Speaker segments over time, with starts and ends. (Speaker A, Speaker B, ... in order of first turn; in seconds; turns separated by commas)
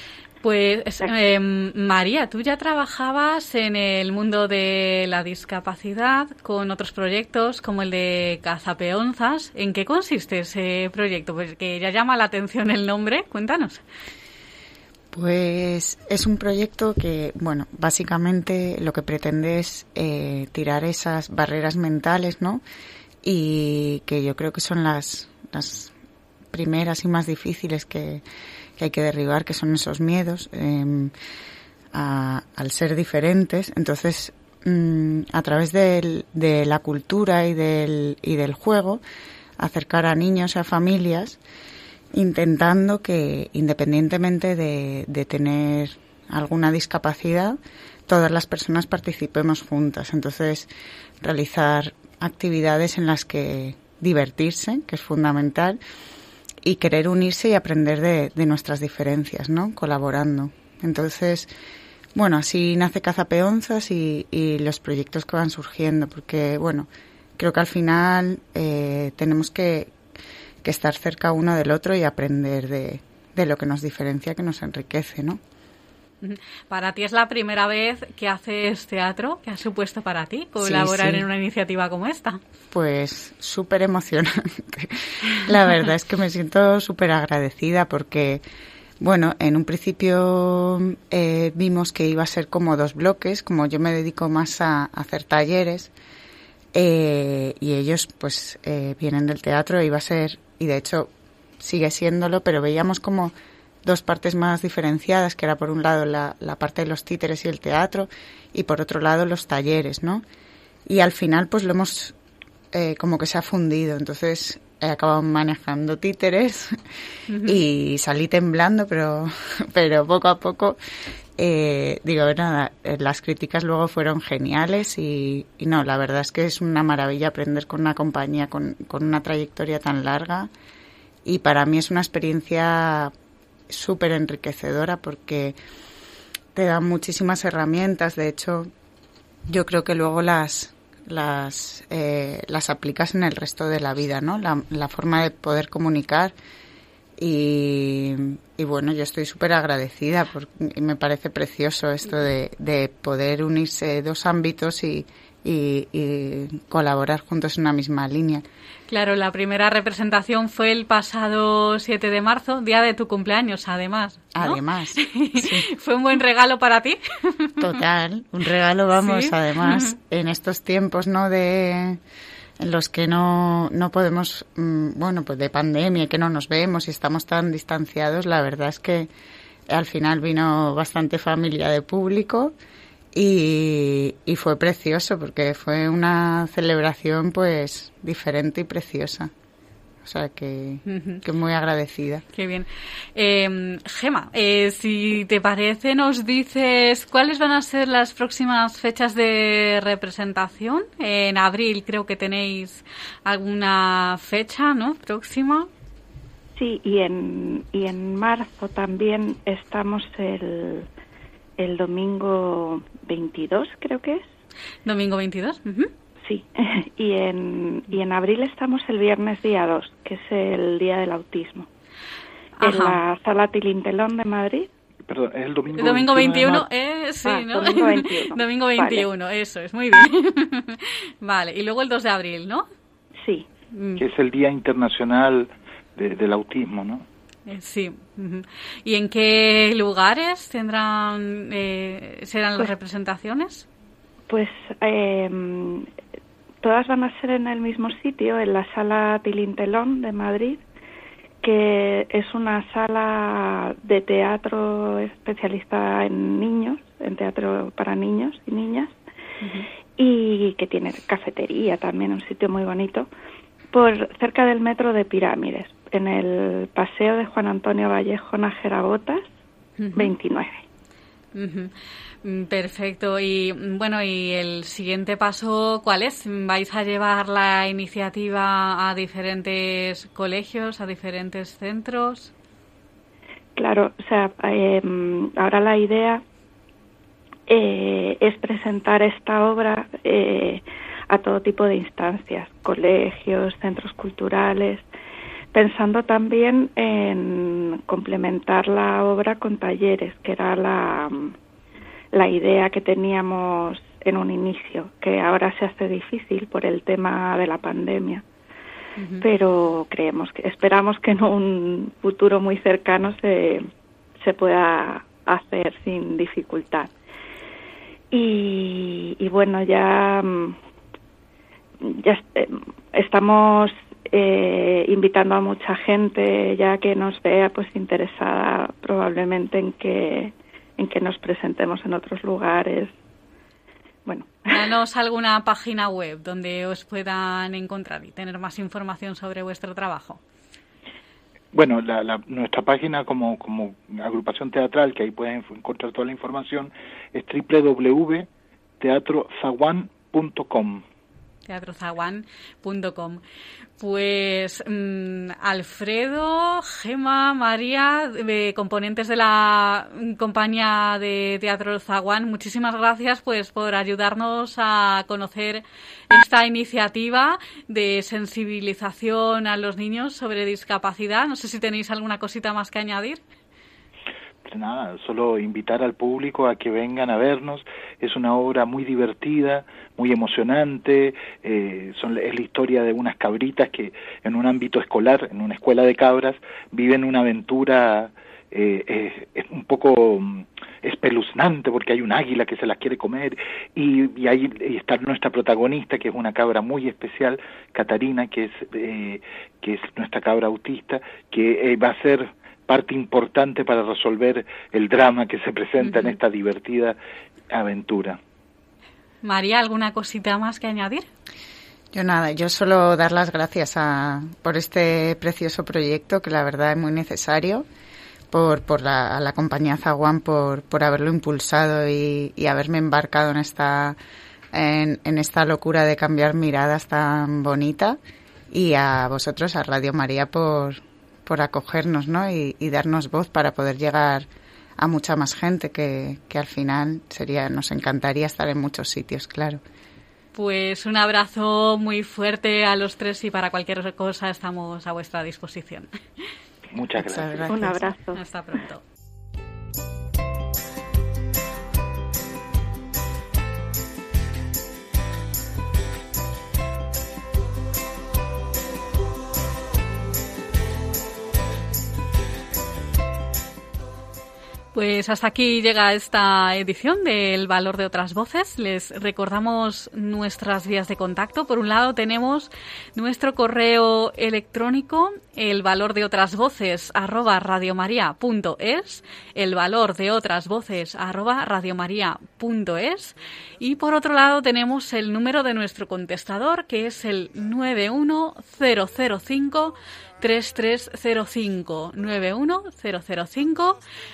Speaker A: 0.4-13.8, Speaker B: 15.1-22.6, Speaker B: 23.2-25.9, Speaker B: 26.5-28.2, Speaker B: 28.8-31.1, Speaker B: 31.9-39.0, Speaker B: 39.6-41.4, Speaker B: 42.1-50.7, Speaker B: 51.2-55.8, Speaker B: 56.6-61.5, Speaker B: 62.1-69.9, Speaker B: 70.6-75.4, Speaker A: 76.2-82.4, Speaker B: 80.6-81.3, Speaker B: 82.7-88.4, Speaker B: 89.0-95.9, Speaker B: 96.7-110.2, Speaker B: 110.9-112.1, Speaker B: 112.7-116.8, Speaker A: 117.3-117.6, Speaker B: 117.4-120.8, Speaker B: 121.4-130.5, Speaker B: 131.2-133.1, Speaker B: 133.7-135.6, Speaker B: 136.6-138.7, Speaker B: 139.5-146.3, Speaker B: 147.2-158.4, Speaker A: 158.9-167.7, Speaker B: 164.3-165.7, Speaker B: 167.6-172.0, Speaker A: 168.9-169.9, Speaker B: 172.6-179.1, Speaker B: 179.7-182.5, Speaker B: 183.1-189.3, Speaker B: 190.0-192.2, Speaker A: 190.9-191.2, Speaker A: 192.3-205.7, Speaker C: 206.6-210.9, Speaker C: 211.6-214.3, Speaker A: 214.9-215.9, Speaker C: 216.2-221.7, Speaker A: 222.6-223.0, Speaker C: 222.6-224.7, Speaker D: 225.1-226.7, Speaker A: 225.7-232.7, Speaker C: 227.2-229.1, Speaker C: 233.2-233.5, Speaker A: 233.7-234.0, Speaker D: 234.0-237.1, Speaker A: 237.5-243.7, Speaker C: 244.3-245.9, Speaker C: 246.6-250.6, Speaker C: 251.4-259.0, Speaker A: 259.4-259.7, Speaker C: 260.0-263.1, Speaker C: 263.7-269.3, Speaker A: 269.8-270.1, Speaker C: 269.9-270.6, Speaker A: 271.4-271.7, Speaker A: 272.2-282.3, Speaker C: 283.6-286.2, Speaker C: 287.5-294.9, Speaker C: 295.5-301.4, Speaker C: 302.1-308.2, Speaker A: 309.0-309.3, Speaker C: 309.2-313.7, Speaker C: 314.2-316.9, Speaker C: 318.1-320.6, Speaker C: 321.8-332.9, Speaker C: 334.1-334.7, Speaker A: 334.5-340.2, Speaker D: 341.5-348.3, Speaker D: 348.8-350.8, Speaker A: 351.5-353.2, Speaker A: 353.8-373.2, Speaker D: 374.4-407.0, Speaker A: 405.8-406.2, Speaker D: 407.5-408.2, Speaker A: 409.2-411.1, Speaker B: 411.9-417.7, Speaker B: 418.3-424.0, Speaker B: 424.5-428.0, Speaker B: 428.5-434.3, Speaker B: 434.8-439.6, Speaker A: 440.4-446.0, Speaker D: 446.7-447.5, Speaker B: 447.0-447.9, Speaker C: 447.5-448.2, Speaker A: 448.1-448.8, Speaker A: 464.7-493.8